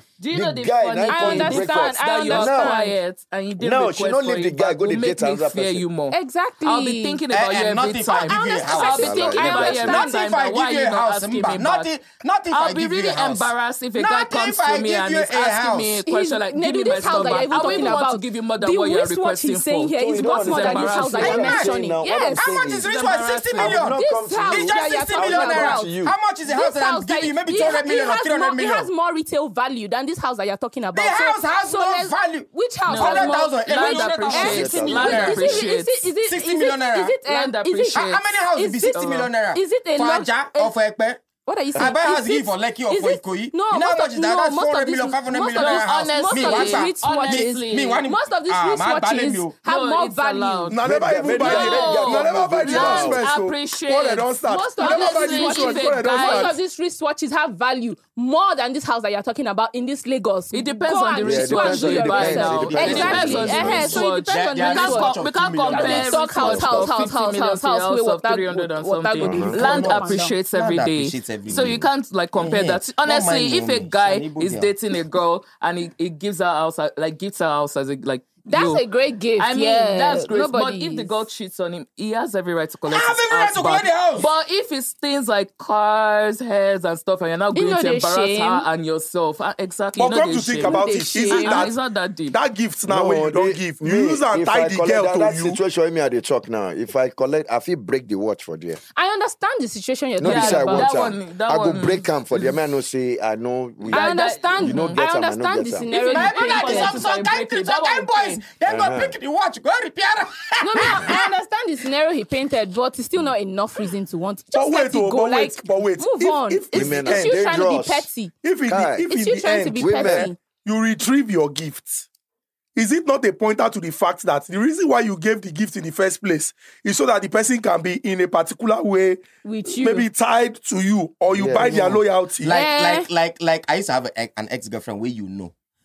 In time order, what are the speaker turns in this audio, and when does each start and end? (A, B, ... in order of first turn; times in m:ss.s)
0:00.2-0:11.9 A
0:00.3-0:02.7 B
0:01.1-0:03.0 C
0:03.6-0:05.8 B
0:06.1-0:07.2 C
0:07.3-0:16.0 D
0:08.3-0:10.2 C
0:08.9-0:09.9 B
0:12.5-0:21.6 A
0:16.1-0:22.5 C
0:17.1-0:18.0 D
0:19.9-0:22.9 B
0:21.2-0:21.7 D
0:22.4-0:24.0 D
0:22.8-0:23.8 A
0:23.6-0:26.1 B
0:23.8-0:25.9 C
0:24.5-0:28.9 D
0:26.4-0:40.7 C
0:30.9-0:35.7 D
0:32.9-0:36.1 A
0:34.3-0:35.5 B
0:36.2-0:37.2 D
0:37.3-0:38.3 A
0:37.9-0:41.2 D
0:38.9-0:39.3 A
0:41.4-0:50.8 C
0:41.7-0:49.6 D
0:45.6-0:48.0 A
0:49.6-0:56.6 A
0:50.7-0:56.6 E
0:50.8-0:53.2 B
0:54.4-1:10.4 C
1:00.5-1:18.8 A
1:01.2-1:04.0 B
1:02.6-1:06.5 D
1:06.3-1:06.9 B
1:09.2-1:09.6 B
1:09.5-1:14.7 D
1:11.5-1:11.8 B
1:18.5-1:21.1 C
1:19.4-1:32.4 A
1:22.8-1:24.3 D
1:27.5-1:28.6 C
1:30.0-1:31.8 E
1:30.6-1:31.7 C
1:32.3-1:35.6 E
1:32.9-1:38.8 B
1:38.9-1:41.0 C
1:40.2-1:45.9 B
1:40.2-1:42.5 A
1:43.8-1:45.0 A
1:43.9-1:47.0 C
1:45.9-1:48.4 A
1:46.1-1:51.3 D
1:48.6-1:49.1 B
1:50.6-1:58.3 C
1:54.5-1:57.4 E
1:56.7-1:58.1 B
1:58.4-2:02.1 E
1:58.7-1:59.1 B
1:59.1-2:00.4 C
1:59.8-2:00.3 B
2:02.8-2:12.6 E
2:09.4-2:10.1 C
2:11.3-2:12.0 B
2:12.4-2:15.5 D
2:12.4-2:13.1 C